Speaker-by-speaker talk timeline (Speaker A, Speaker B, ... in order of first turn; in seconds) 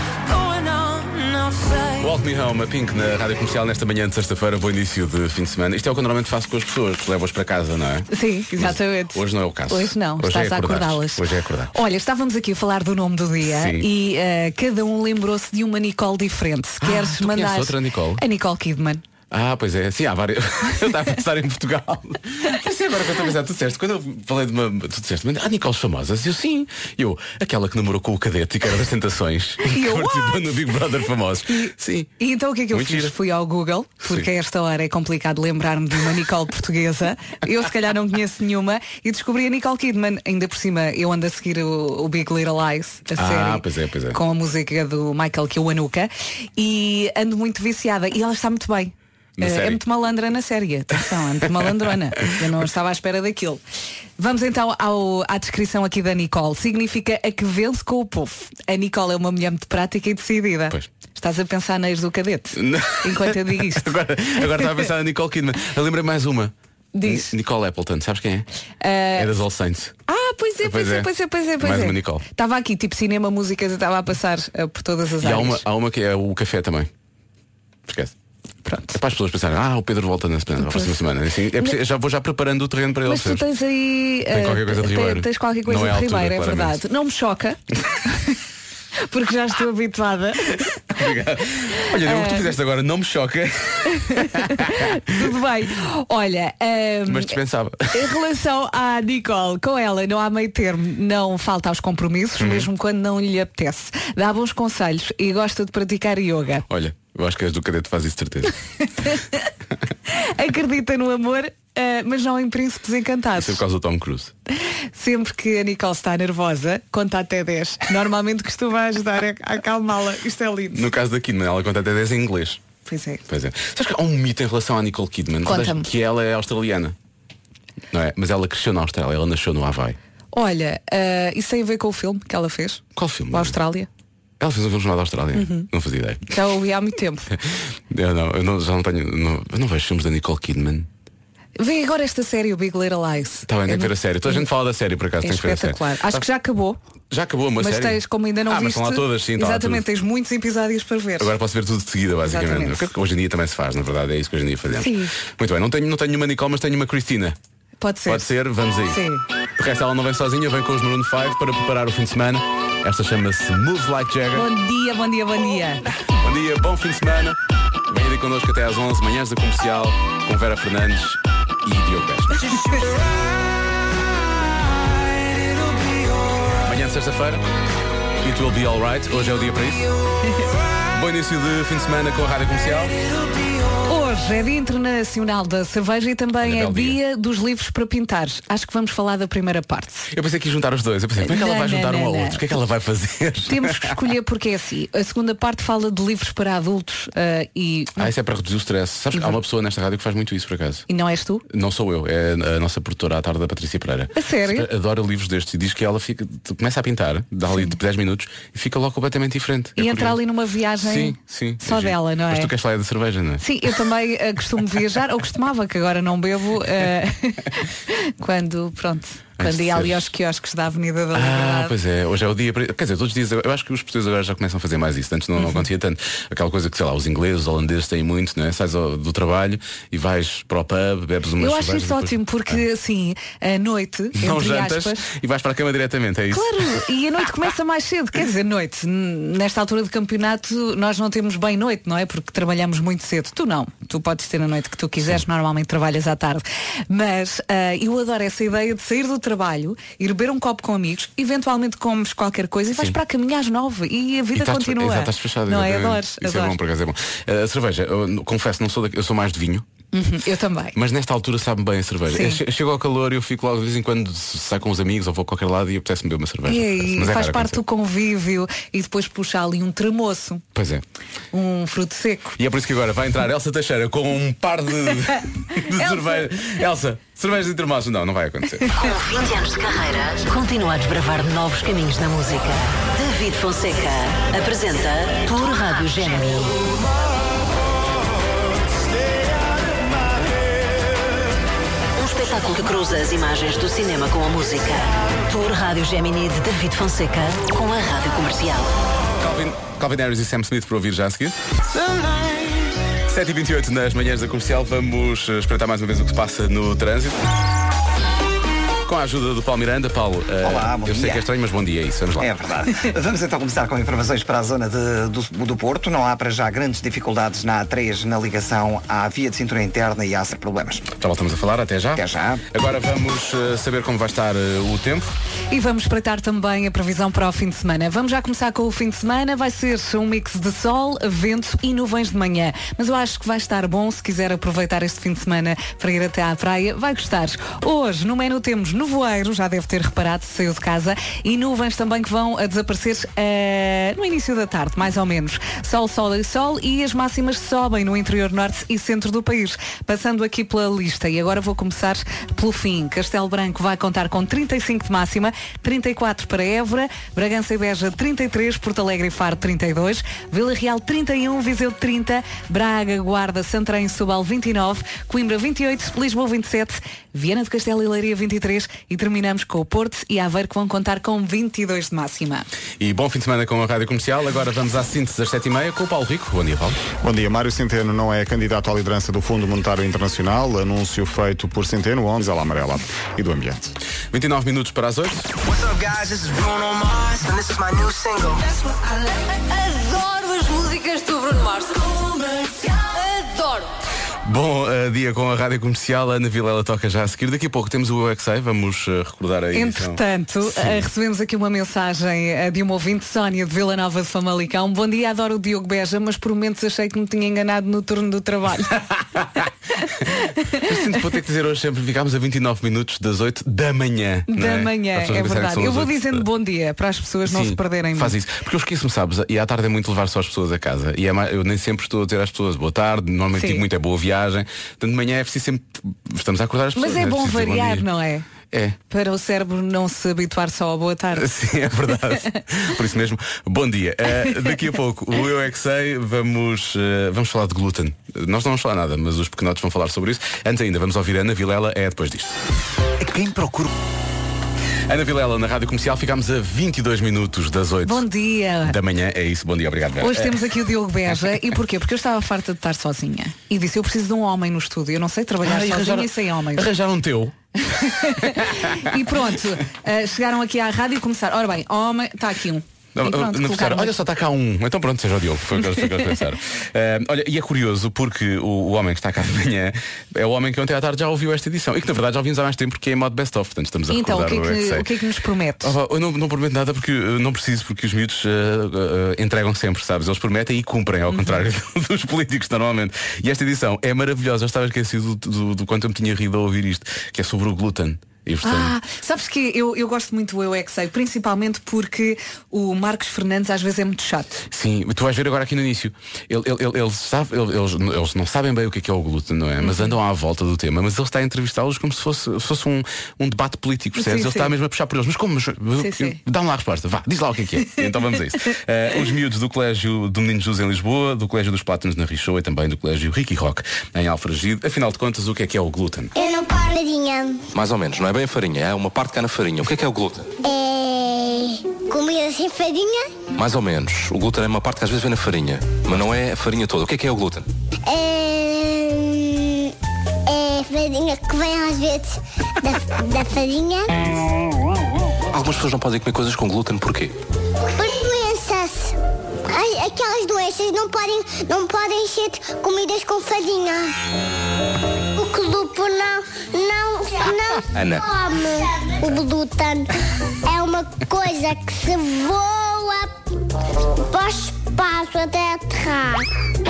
Speaker A: 0.3-1.9, 389.4-393.7
Speaker B: 2.0-11.7, 13.4-13.9, 16.8-18.2, 19.3-32.1, 32.7-33.1, 43.2-44.2, 49.4-49.8, 62.6-66.5, 67.0-68.5, 69.2-69.9, 70.6-72.2, 75.2-76.9, 77.9-78.1, 78.9-83.5, 84.3-86.8, 90.9-95.1, 97.1-98.1, 102.4-102.7, 106.7-108.5, 113.4-114.3, 120.7-122.6, 123.3-126.9, 127.9-130.0, 132.9-133.6, 134.4-136.3, 137.9-140.9, 143.5-146.2, 147.1-149.8, 151.2-157.3, 158.1-159.0, 159.6-164.5, 166.2-167.4, 167.9-173.0, 176.6-177.4, 178.2-179.9, 180.9-182.9, 186.4-187.0, 190.1-193.9, 198.0-200.8, 201.5-210.2, 210.8-213.7, 219.4-220.1, 221.1-232.6, 234.2-236.7, 254.3-259.6, 260.7-267.6, 270.5-270.8, 272.4-278.7, 299.2-301.4, 303.1-307.2, 308.9-312.3, 321.0-325.1, 372.8-376.8, 384.1-385.3, 394.2-400.8, 410.6-416.2, 417.2-427.9, 428.5-428.8, 431.1-442.3, 443.0-443.7, 444.9-448.0, 448.6-450.5, 455.4-457.3, 458.3-458.9, 462.9-474.9, 475.6-488.7, 494.5-516.1
Speaker C: 8.1-19.0, 29.6-30.6, 31.5-53.6, 54.2-63.9, 66.9-67.3, 68.8-69.3, 70.1-75.6, 78.7-79.0, 80.6-80.9, 83.0-87.6, 89.1-90.9, 92.0-92.5, 94.0-97.4, 97.9-106.7, 110.1-113.6, 114.9-120.8, 122.8-123.2, 125.4-125.9, 130.3-133.9, 135.3-135.7, 136.3-137.3, 141.6-144.5, 145.2-146.8, 147.6-151.3, 152.2-152.9, 154.7-155.1, 157.8-158.3, 158.8-159.2, 164.3-165.9, 183.8-190.1, 191.2-192.4, 193.5-198.1, 200.9-201.4, 204.1-204.7, 207.5-207.8, 209.8-212.5, 213.4-221.7, 225.3-225.7, 231.4-235.1, 236.3-256.6, 259.9-260.7, 262.1-262.4, 266.5-270.4, 271.3-272.4, 275.7-276.3, 325.5-372.4, 399.5-408.9, 410.1-410.7, 414.3-418.1, 423.4-423.6, 426.8-428.3, 428.9-431.3, 447.8-448.7, 450.0-456.6, 457.6-463.9, 473.9-475.7, 481.1-481.4, 488.4-494.4, 499.6-499.9, 503.9-504.5, 505.8-506.2
Speaker D: 278.7-286.6, 291.9-298.7
Speaker E: 310.4-311.2, 312.2-320.9, 321.9-322.4
Speaker F: 377.0-383.7
Speaker G: 385.4-388.5
Speaker H: 516.1-517.4, 520.4-523.1, 527.9-529.7, 530.2-533.9, 537.6-543.9, 545.1-549.9, 550.4-553.1, 554.0-556.3
Speaker I: 517.5-520.3, 523.4-527.5, 535.3-537.1, 547.7-548.0